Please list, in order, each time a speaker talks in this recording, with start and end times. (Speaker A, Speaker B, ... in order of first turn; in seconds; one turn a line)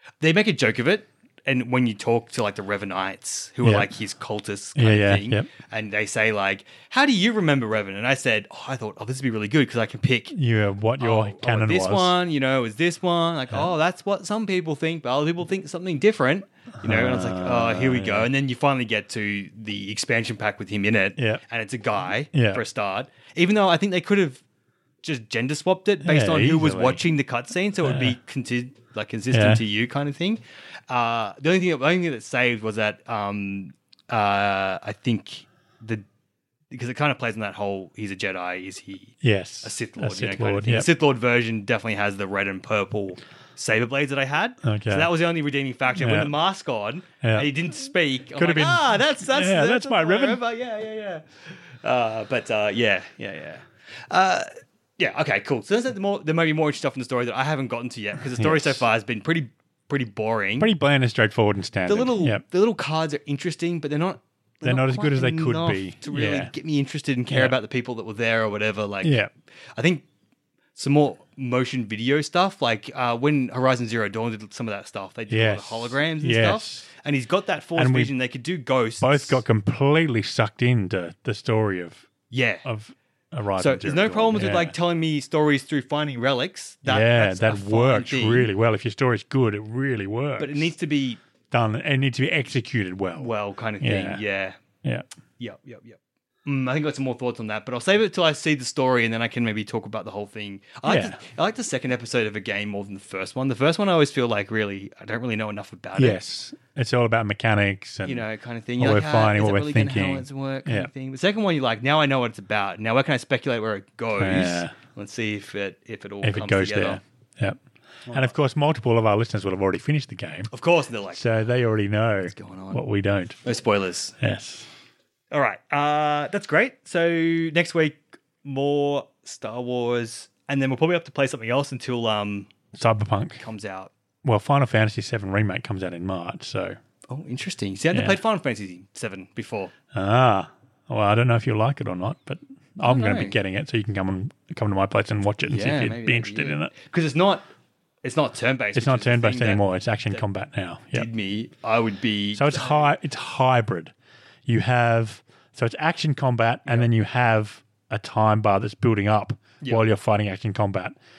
Speaker A: 0.2-10.4
Speaker B: 3.6-3.9
Speaker B: 4.8-5.5
Speaker B: 10.3-12.1
Speaker A: 11.0-24.4
Speaker B: 16.8-18.3
Speaker B: 22.3-22.6
Speaker A: 25.0-36.0
Speaker B: 26.0-27.0
Speaker B: 27.8-28.2
Speaker B: 29.3-29.6
Speaker A: 36.7-60.7
Speaker B: 39.2-40.9
Speaker B: 44.6-45.1
Speaker B: 46.0-46.3
Speaker B: 47.2-47.5
Speaker B: 48.4-50.4
Speaker B: 58.4-58.8
Speaker B: 60.6-62.4
Speaker A: 61.9-69.2
Speaker B: 64.6-66.5
Speaker B: 67.3-67.6
Speaker B: 69.0-69.3
Speaker A: 69.8-70.0
Speaker A: 70.8-79.4
Speaker B: 75.3-76.9
Speaker B: 77.8-78.1
Speaker B: 79.0-82.0
Speaker A: 82.3-82.7
Speaker B: 82.6-84.7
Speaker A: 83.6-88.5
Speaker B: 86.9-90.7
Speaker A: 90.4-91.2
Speaker B: 91.5-94.2
Speaker A: 93.2-94.6
Speaker A: 95.4-106.2
Speaker B: 100.8-101.2
Speaker B: 106.0-108.2
Speaker A: 108.0-117.0
Speaker B: 108.8-110.9
Speaker B: 114.2-114.7
Speaker B: 116.2-120.5
Speaker A: 118.1-118.3
Speaker A: 120.5-121.3
Speaker B: 121.1-123.4
Speaker A: 122.3-122.8
Speaker A: 123.4-124.2
Speaker B: 124.2-124.7
Speaker A: 125.3-132.5
Speaker B: 132.7-133.4
Speaker A: 133.4-133.9
Speaker B: 134.2-136.8
Speaker A: 137.1-139.7
Speaker B: 137.9-138.2
Speaker B: 139.9-146.7
Speaker A: 142.8-143.4
Speaker A: 145.4-147.4
Speaker A: 148.0-150.2
Speaker B: 148.7-151.1
Speaker A: 150.9-152.9
Speaker B: 152.3-153.9
Speaker B: 154.4-160.9
Speaker A: 159.6-159.9